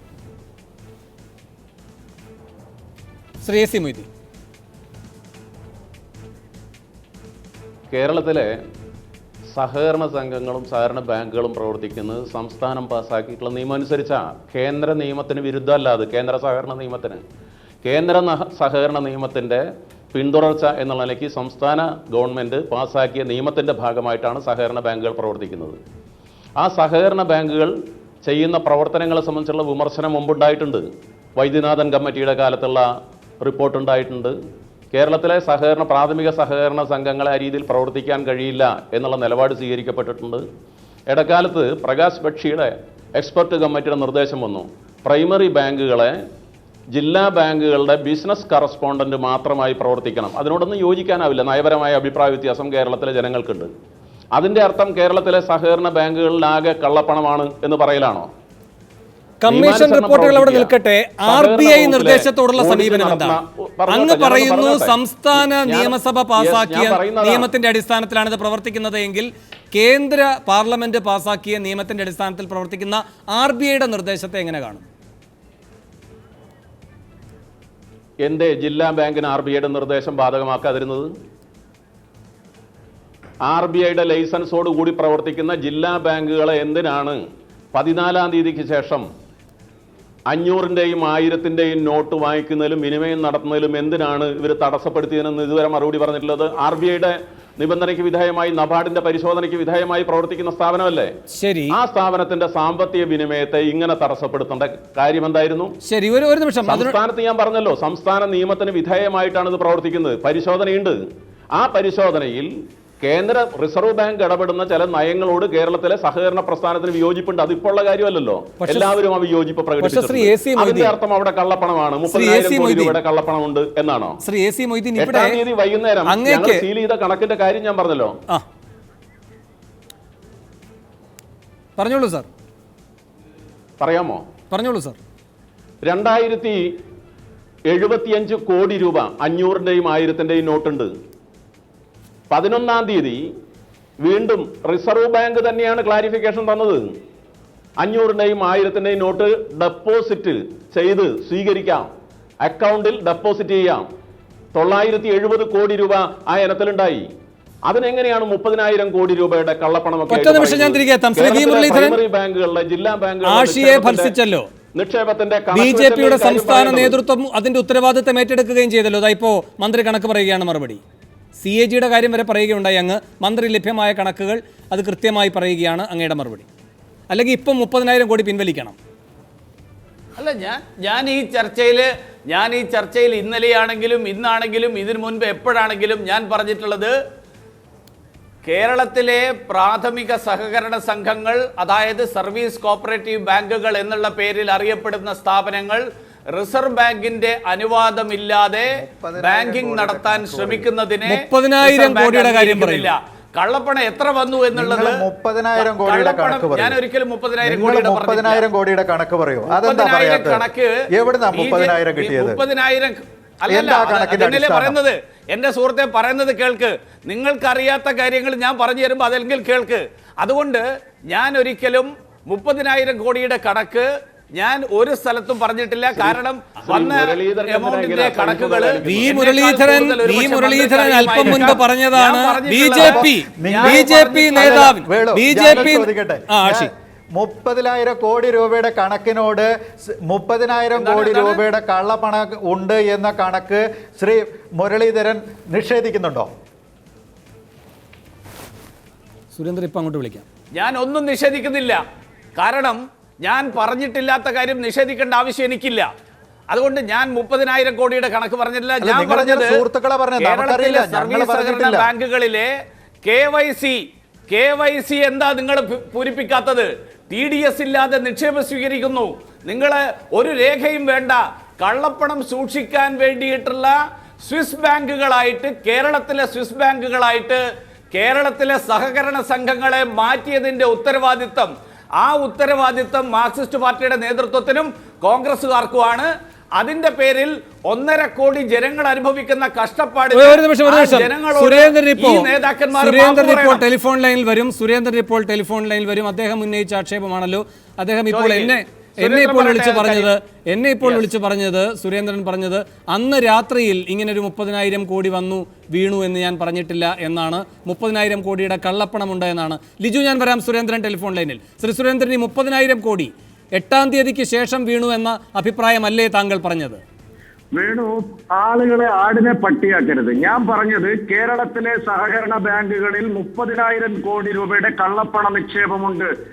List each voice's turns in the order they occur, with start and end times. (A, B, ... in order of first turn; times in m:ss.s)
0:03.4-0:04.1 A
0:07.9-0:08.5 B
0:09.5-0:17.2 B
0:17.8-0:19.6 B
0:20.1-0:25.8 B
0:26.6-0:27.7 B
0:28.2-0:30.8 B
0:31.4-0:32.8 B
0:33.4-0:34.4 B
0:34.9-0:40.4 B
0:41.1-0:46.1 B
0:46.9-0:53.7 B
0:54.4-0:58.3 B
0:59.4-1:03.4 A
0:59.5-1:07.5 B
1:03.9-1:14.9 A
1:18.2-1:21.1 B
1:23.5-1:27.2 B
1:27.7-1:29.0 B
1:30.3-1:41.1 B
1:41.3-1:41.8 A
1:41.7-1:45.7 B
1:45.8-1:47.0 A
1:46.6-1:51.0 B
1:51.6-1:52.5 B
1:53.0-2:04.2 B
1:58.6-1:58.9 A
1:59.8-2:01.0 A
2:02.1-2:03.0 A
2:04.2-2:05.4 A
2:05.0-2:08.2 B
2:06.1-2:06.6 A
2:11.8-2:12.3 A
2:13.8-2:14.2 B
2:14.5-2:15.0 A
2:15.8-2:16.6 B
2:17.7-2:20.9 B
2:22.3-2:23.2 B
2:24.0-2:26.8 B
2:27.8-2:31.9 B
2:32.4-2:33.9 B
2:34.6-2:37.1 B
2:37.7-2:44.2 B
2:40.1-2:42.0 A
2:43.2-2:44.5 A
2:44.8-2:47.0 B
2:45.5-2:50.8 A
2:51.4-2:56.5 A
2:57.1-2:58.8 A
3:00.2-3:06.9 C
3:08.4-3:25.0 C
3:18.7-3:20.7 D
3:21.0-3:22.9 A
3:24.5-3:26.8 D
3:25.6-3:28.5 C
3:27.4-3:32.4 D
3:29.5-3:30.7 C
3:31.3-3:54.8 C
3:33.5-3:34.8 D
3:45.9-3:49.2 B
3:48.8-3:56.7 A
3:52.8-4:06.3 D
4:00.8-4:01.4 C
4:09.3-4:10.2 A
4:10.5-4:11.8 C
4:12.4-4:15.9 C
4:16.5-4:19.6 C
4:18.8-4:21.9 D
4:20.2-4:22.5 C
4:23.0-4:37.4 C
4:37.9-4:53.6 C
4:50.1-5:16.8 A
4:58.1-5:00.1 C
5:00.8-5:01.1 C
5:17.6-5:26.1 E